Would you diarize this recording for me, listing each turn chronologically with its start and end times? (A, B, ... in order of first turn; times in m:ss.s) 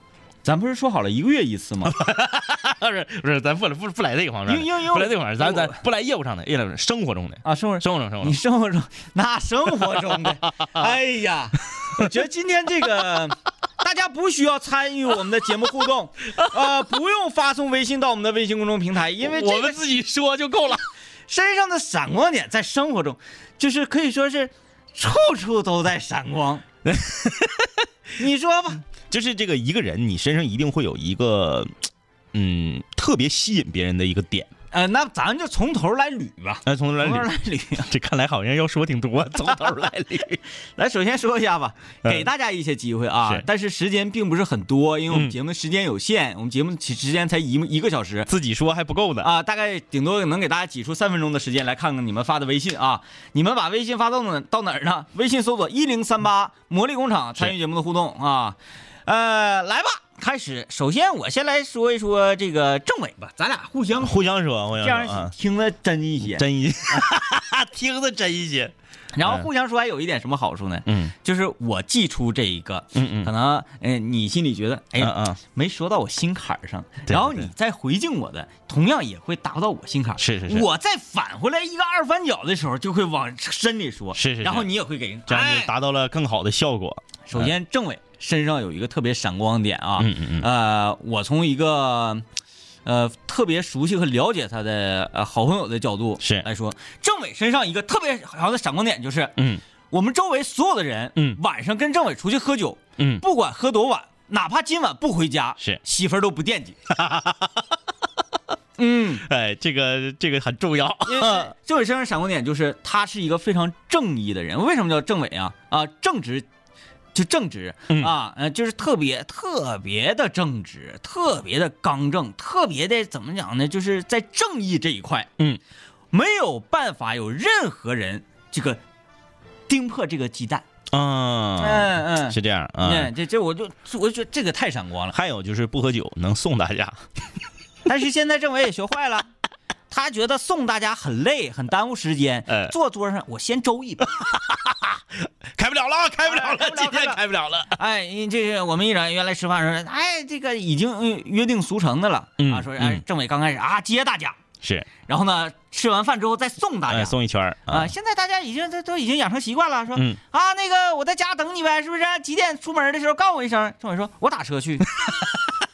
0:00.4-0:02.0 A
0:01.8-0:08.4 B
0:04.4-0:05.8 A
0:07.4-0:19.8 A
0:19.2-0:20.8 B
0:21.3-0:26.6 A
0:26.8-0:27.7 B
0:28.2-0:28.8 A
0:29.1-0:31.7 B
0:32.3-0:34.5 B
0:34.7-0:37.9 A
0:36.6-0:37.3 B
0:37.8-0:40.4 B
0:40.8-0:48.3 A
0:42.0-0:42.3 B
0:45.1-0:45.3 B
0:48.3-0:49.3 B
0:49.2-1:06.5 A
1:04.0-1:05.3 B
1:06.2-1:09.5 B
1:09.1-1:25.7 A
1:10.9-1:11.1 B
1:12.9-1:13.3 B
1:15.0-1:15.4 B
1:17.1-1:17.5 B
1:20.2-1:20.7 B
1:24.1-1:24.7 B
1:25.2-1:27.5 B
1:27.2-1:32.2 A
1:30.0-1:30.5 B
1:32.8-1:39.4 A
1:36.2-1:36.5 B
1:39.4-1:39.6 B
1:39.9-1:46.8 A
1:43.0-1:43.2 B
1:46.9-1:47.6 B
1:48.8-1:49.2 A
1:49.2-1:51.5 B
1:51.0-1:56.5 A
1:57.1-2:05.3 A
1:57.9-1:58.1 B
2:06.1-2:08.8 A
2:09.7-2:10.6 A
2:10.9-2:13.1 B
2:11.6-2:15.2 A
2:15.1-2:17.0 B
2:17.9-2:19.3 A
2:19.9-2:24.1 A
2:22.5-2:22.7 B
2:24.2-2:25.0 B
2:25.5-2:27.8 B
2:26.2-2:27.2 A
2:27.7-2:34.4 A
2:32.4-2:33.0 B
2:34.6-2:34.9 B
2:35.1-2:37.2 A
2:36.9-2:37.9 B
2:37.7-2:44.9 A
2:39.9-2:40.2 B